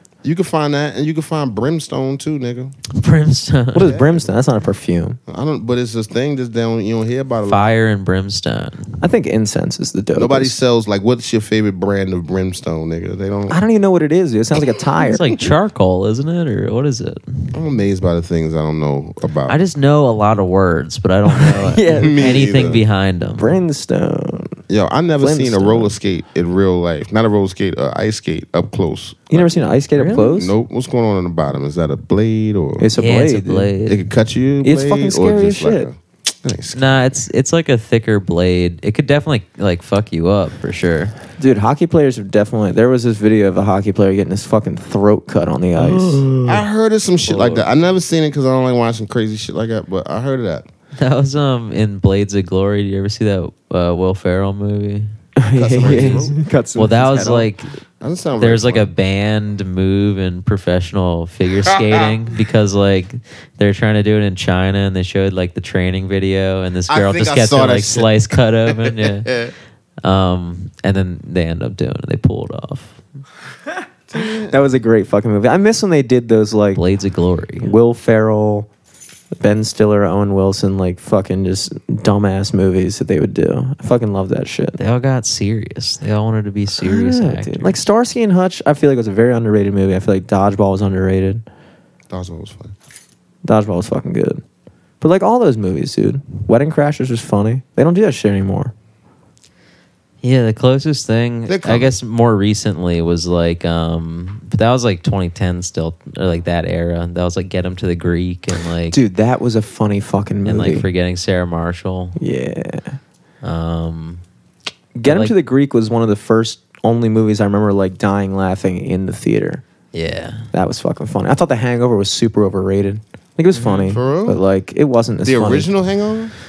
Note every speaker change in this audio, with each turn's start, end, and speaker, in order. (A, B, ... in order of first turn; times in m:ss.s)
0:00.2-0:02.7 A
0:02.9-0:03.9 B
0:03.7-0:05.2 C
0:03.8-0:04.3 A
0:05.3-0:07.7 A
0:07.4-0:08.9 B
0:09.0-0:10.5 C
0:10.1-0:13.6 A
0:13.5-0:15.2 C
0:15.0-0:17.6 B
0:17.5-0:19.6 A
0:19.5-0:23.4 B
0:21.3-0:22.2 C
0:21.9-0:22.8 A
0:23.4-0:24.6 C
0:24.7-0:29.6 A
0:25.2-0:25.9 C
0:29.3-0:30.5 C
0:30.0-0:30.4 B
0:30.3-0:32.9 A
0:32.8-0:33.7 C
0:33.0-0:34.0 B
0:33.8-0:37.2 A
0:34.6-0:35.9 C
0:36.7-0:41.1 B
0:41.4-0:46.3 C
0:45.8-0:46.6 B
0:46.4-0:50.6 A
0:47.2-0:47.7 B
0:51.0-0:55.1 B
0:55.4-0:57.5 C
0:55.5-0:56.4 A
0:55.8-0:56.2 B
0:56.8-0:57.8 B
0:58.0-0:58.9 A
0:58.4-1:09.3 B
1:01.7-1:02.1 A
1:06.9-1:09.5 A
1:10.0-1:13.0 B
1:14.1-1:14.5 A
1:14.2-1:16.8 C
1:16.7-1:17.7 B
1:17.6-1:18.7 C
1:19.4-1:24.8 C
1:24.8-1:27.8 B
1:26.8-1:31.4 C
1:32.1-1:32.7 A
1:33.4-1:34.4 C
1:35.0-1:38.7 C
1:40.2-1:49.0 B
1:41.4-1:41.9 A
1:48.9-1:50.8 C
1:50.4-1:52.2 B
1:52.2-1:53.0 C
1:53.4-1:54.2 B
1:55.0-1:59.6 C
1:55.0-1:55.3 B
1:59.9-2:00.5 B
2:00.5-2:05.7 C
2:03.5-2:03.9 B
2:03.8-2:04.4 A
2:05.2-2:06.3 A